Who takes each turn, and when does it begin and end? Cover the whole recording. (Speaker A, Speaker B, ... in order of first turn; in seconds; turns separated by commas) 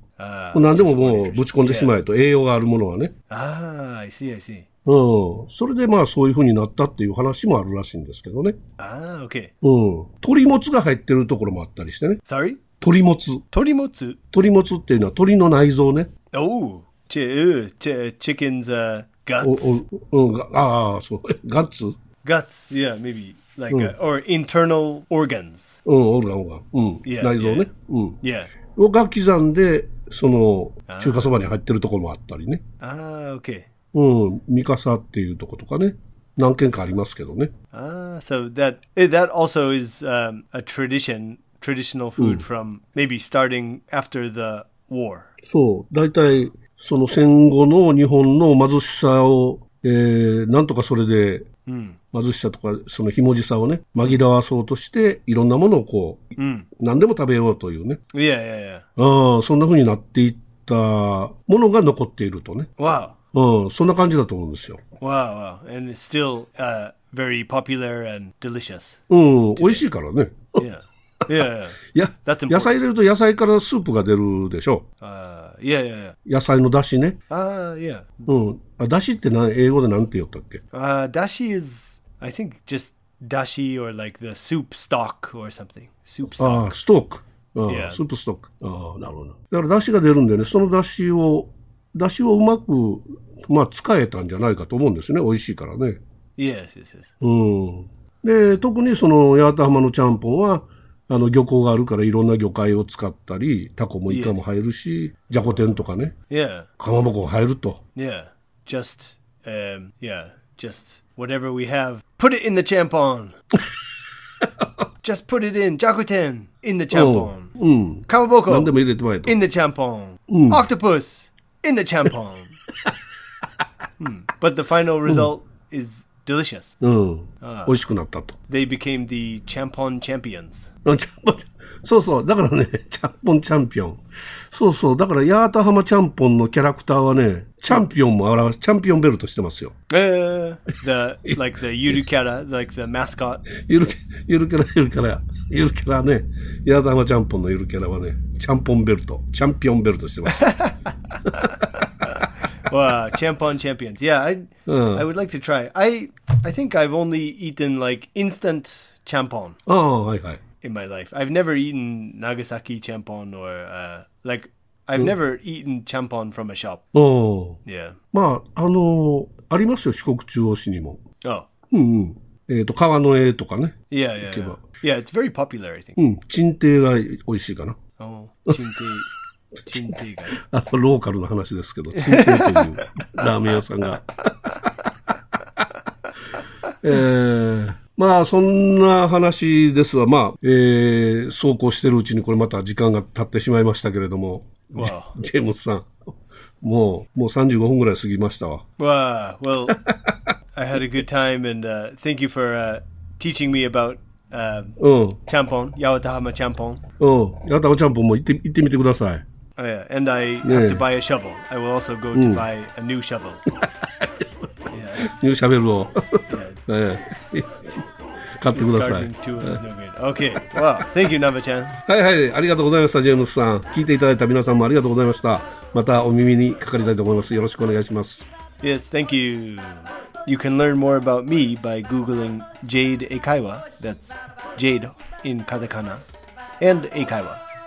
Speaker A: 0.2-1.9, Speaker B: 0.5-3.1, Speaker A: 3.3-4.7, Speaker B: 4.8-8.6, Speaker A: 8.8-9.5, Speaker B: 9.6-12.2, Speaker A: 12.3-12.6, Speaker B: 12.8-13.4, Speaker A: 13.5-14.2, Speaker B: 14.3-16.1, Speaker A: 16.3-19.8, Speaker B: 19.4-21.9, Speaker A: 22.2-25.8, Speaker B: 25.9-28.2, Speaker A: 27.0-27.7, Speaker A: 28.2-28.5, Speaker B: 28.8-32.6, Speaker A: 30.9-31.3, Speaker A: 32.8-33.7, Speaker B: 33.9-37.5, Speaker A: 37.7-45.3, Speaker B: 42.2-42.4, Speaker B: 45.4-51.5, Speaker A: 51.7-52.0, Speaker B: 52.1-58.0, Speaker A: 56.4-56.7, Speaker A: 58.1-58.9, Speaker B: 59.0-62.7, Speaker A: 62.8-63.2, Speaker B: 63.3-64.8, Speaker A: 65.0-69.0, Speaker B: 69.1-70.6, Speaker A: 69.6-69.8, Speaker A: 70.6-72.7, Speaker B: 71.8-74.9, Speaker A: 75.0-76.2, Speaker B: 76.3-77.2, Speaker A: 77.3-78.3, Speaker B: 78.3-80.6, Speaker A: 80.7-86.7, Speaker B: 86.4-96.0, Speaker A: 87.7-88.0, Speaker A: 96.4-97.1, Speaker B: 97.2-106.2, Speaker A: 104.1-104.3, Speaker A: 106.3-106.7, Speaker B: 106.8-107.8, Speaker A: 108.0-113.4, Speaker A: 115.0-117.5, Speaker B: 116.9-119.4, Speaker A: 118.1-122.6, Speaker B: 120.3-120.7, Speaker A: 124.0-126.8, Speaker B: 126.8-128.4, Speaker A: 127.4-127.8, Speaker A: 128.5-130.7, Speaker B: 130.8-139.8, Speaker A: 139.9-143.5, Speaker B: 143.5-150.6, Speaker A: 150.3-150.8, Speaker A: 151.3-159.6, Speaker B: 154.7-155.1, Speaker B: 159.7-160.4, Speaker A: 160.6-166.8, Speaker B: 166.9-167.6, Speaker A: 167.7-168.0, Speaker B: 168.1-171.0, Speaker A: 171.2-171.5, Speaker B: 171.7-174.6, Speaker A: 173.9-176.0, Speaker B: 176.0-177.8, Speaker A: 178.0-179.1, Speaker A: 179.7-180.4, Speaker B: 179.7-184.9, Speaker A: 181.9-182.8, Speaker B: 186.8-195.9, Speaker A: 194.7-195.2, Speaker B: 196.6-198.6, Speaker A: 198.8-199.8, Speaker B: 199.7-200.2, Speaker A: 200.5-206.8, Speaker B: 204.8-205.2, Speaker B: 207.0-209.2, Speaker A: 209.6-213.4, Speaker B: 210.4-210.8, Speaker B: 212.1-212.5, Speaker B: 213.6-214.2, Speaker A: 214.7-215.1, Speaker B: 215.0-219.6, Speaker A: 216.3-216.6, Speaker A: 218.5-221.8, Speaker B: 220.3-220.7, Speaker B: 221.9-228.3, Speaker A: 228.6-236.0, Speaker A: 236.6-237.4